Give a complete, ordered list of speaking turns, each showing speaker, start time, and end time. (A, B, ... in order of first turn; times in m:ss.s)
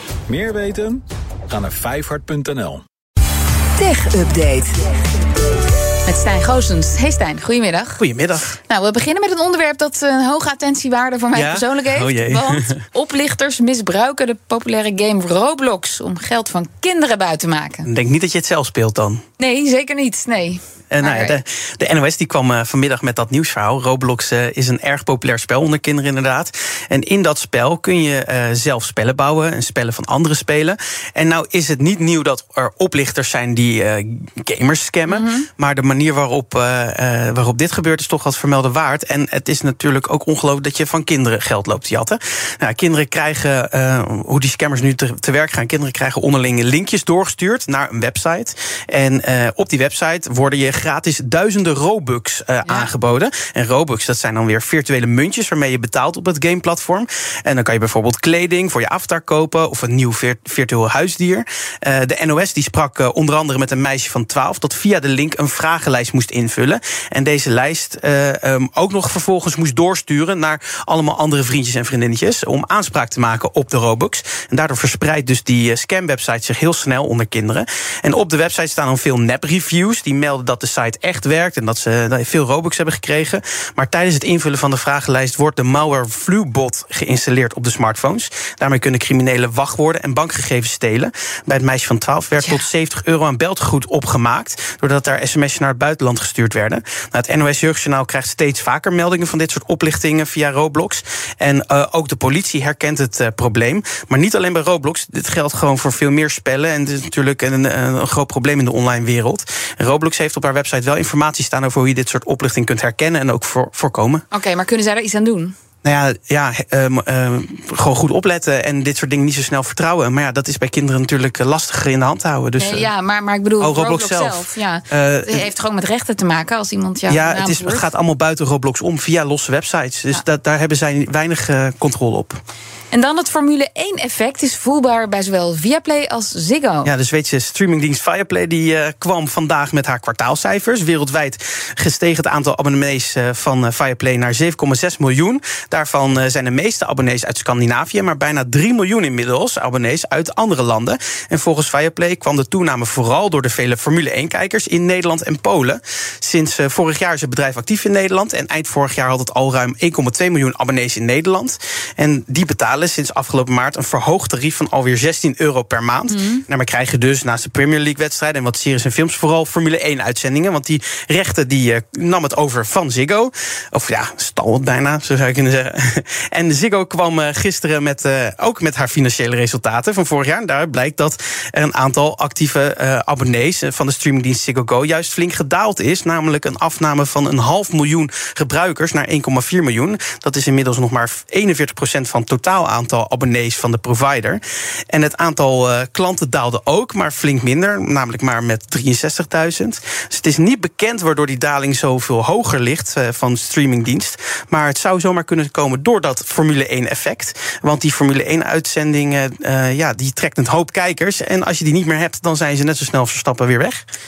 0:00.3-0:02.8 A
0:03.8-0:04.8 B
0:06.0-0:08.0 B
0:08.0-0:08.6 C
0:08.7-0:17.9 B
0:11.3-0:12.8 C
0:17.8-0:19.2 C
0:19.4-0:21.4 B
0:20.9-1:54.2 C
0:35.1-0:35.5 B
0:52.6-0:53.0 B
1:32.4-1:32.7 B
1:54.3-1:55.5 B
1:55.8-2:02.9 C
2:02.6-2:07.9 B
2:03.6-2:05.5 C
2:07.1-2:12.4 C
2:12.9-2:16.9 B
2:16.8-3:33.8 C
2:46.1-2:46.4 B